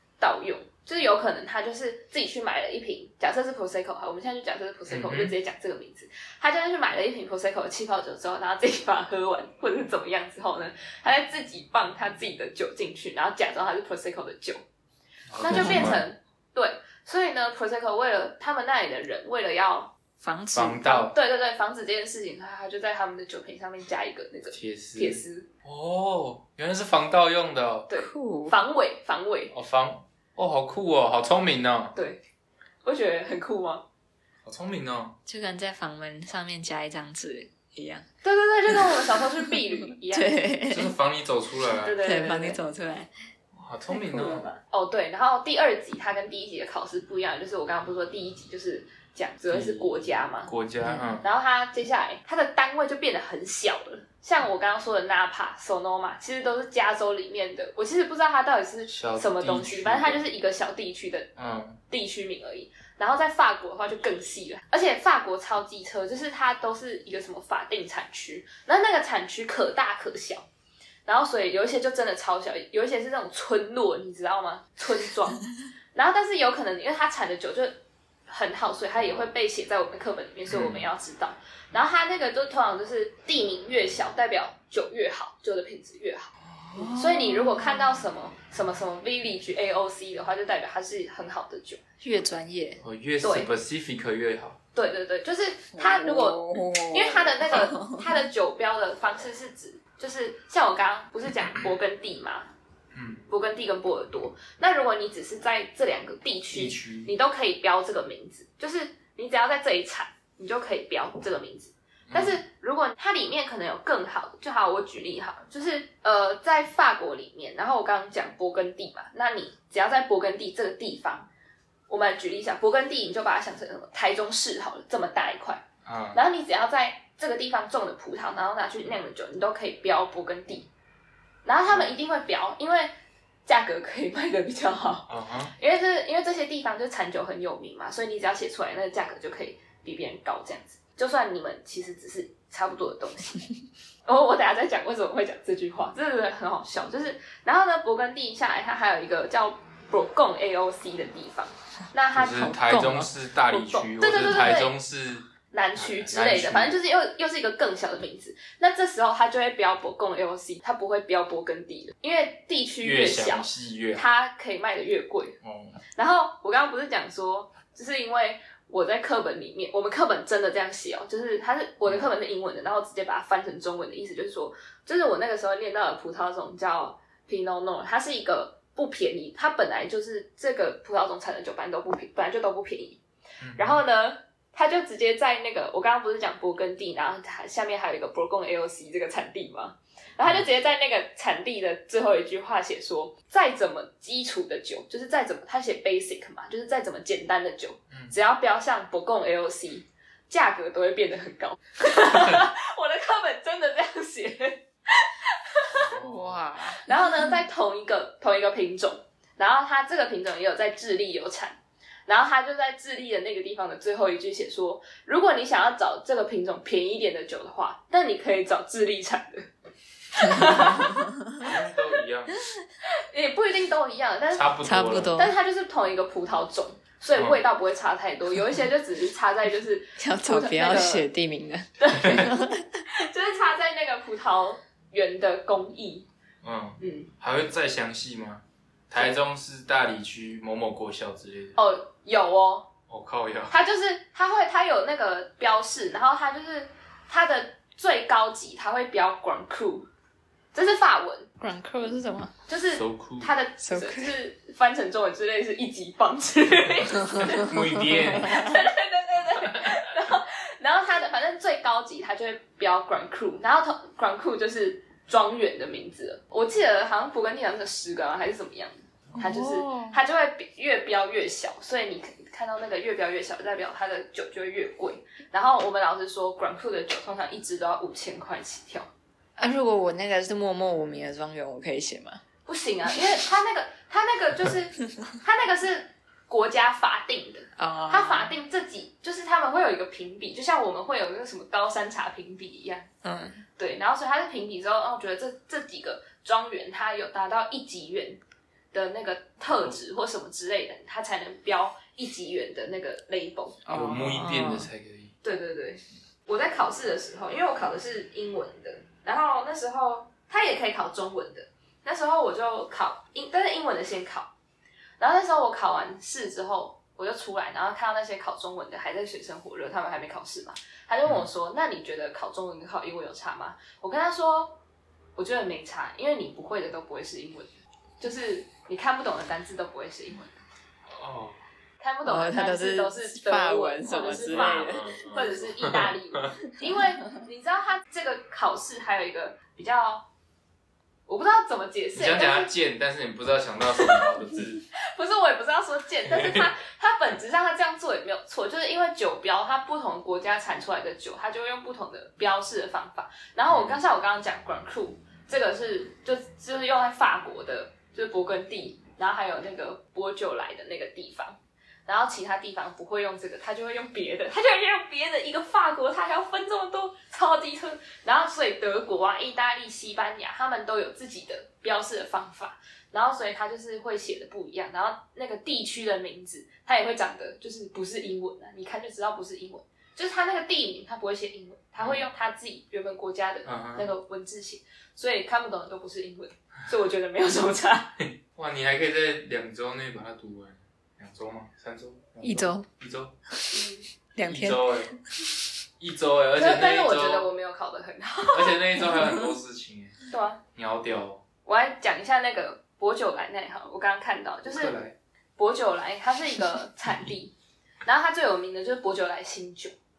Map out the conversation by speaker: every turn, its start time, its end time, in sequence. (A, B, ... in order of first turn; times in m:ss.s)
0:00.2-0:14.6 A
0:04.9-0:05.4 B
0:15.3-0:16.0 B
0:15.4-0:19.9 A
0:20.2-0:20.9 C
0:20.5-0:21.1 B
0:20.8-0:25.5 A
0:24.5-0:27.9 B
0:27.9-0:29.5 A
0:28.0-0:28.6 C
0:29.5-0:32.0 B
0:32.0-0:32.2 A
0:32.8-0:33.8 A
0:34.4-0:35.2 B
0:35.3-0:38.1 C
0:38.2-0:40.4 A
0:38.7-0:40.9 C
0:40.7-0:42.0 B
0:41.8-0:42.6 A
0:42.0-0:43.1 C
0:43.5-0:44.5 B
0:44.0-0:44.6 C
0:44.7-0:50.5 A
0:49.5-0:51.2 B
0:50.8-0:51.1 C
0:51.2-1:01.3 A
0:58.9-1:00.2 B
1:01.4-1:01.8 B
1:01.9-1:10.5 A
1:11.1-1:15.4 A
1:16.0-1:17.7 A
1:18.3-1:31.8 A
1:20.5-1:20.9 B
1:26.6-1:28.0 C
1:32.0-1:32.8 C
1:32.8-1:34.6 B
1:33.2-1:33.5 A
1:34.8-1:42.5 A
1:35.8-1:38.0 C
1:42.9-1:43.2 B
1:43.3-2:01.3 A
1:46.5-1:47.1 B
1:52.1-1:52.4 B
2:01.9-2:10.7 A
2:05.8-2:06.2 B
2:11.4-2:12.9 A
2:11.7-2:11.9 B
2:13.5-2:23.4 A
2:15.1-2:15.5 B
2:24.1-2:32.5 A
2:32.1-2:36.8 B
2:32.3-2:33.1 C
2:33.5-2:34.7 A
2:35.5-2:45.4 A
2:42.8-2:44.0 B
2:45.4-2:45.8 B
2:46.0-3:03.0 A
3:03.4-3:03.8 B
3:03.6-3:25.9 A
3:25.7-3:26.5 B
3:26.0-3:27.4 C
3:26.7-3:39.5 A
3:40.1-3:41.0 A
3:40.3-3:41.4 C
3:41.4-3:42.4 B
3:43.1-3:51.1 A
3:44.3-3:45.2 B
3:44.6-3:45.4 C
3:50.0-3:52.6 C
3:51.8-3:56.1 A
3:52.0-3:52.3 B
3:56.4-4:01.6 B
3:56.8-3:57.1 A
4:01.6-4:02.7 A
4:02.9-4:03.6 B
4:03.5-4:09.9 A
4:10.5-4:11.3 A
4:11.4-4:12.3 C
4:12.5-4:17.6 A
4:12.7-4:13.3 B
4:13.6-4:14.2 C
4:17.2-4:18.6 B
4:18.2-4:38.9 A
4:29.2-4:30.0 C
4:39.4-4:42.2 C
4:42.5-4:52.9 A
4:47.6-4:48.4 C
4:53.0-4:53.4 C
4:53.6-4:58.2 A
4:58.7-5:03.6 A
5:03.7-5:04.7 C
5:03.7-5:05.1 B
5:05.2-5:14.3 A
5:15.0-5:24.6 A
5:25.2-5:30.4 A
5:30.9-5:31.4 B
5:31.8-5:40.1 A
5:32.0-5:34.9 C
5:33.9-5:36.3 B
5:41.1-5:42.5 A
5:42.0-5:44.6 B
5:44.9-6:28.0 A
5:46.1-5:46.5 B
5:53.5-5:53.8 B
6:21.8-6:22.0 B
6:23.5-6:23.9 B
6:28.2-6:33.1 B
6:32.2-6:32.7 C
6:33.3-6:35.0 C
6:33.5-6:33.9 A
6:34.2-6:34.9 B
6:35.8-6:37.3 B
6:36.4-6:39.1 A
6:38.3-6:40.0 B
6:38.9-6:39.2 C
6:40.1-6:40.4 A
6:40.6-6:41.2 B
6:41.5-6:44.8 A
6:44.4-6:45.0 B
6:45.4-6:47.3 A
6:47.8-6:49.8 A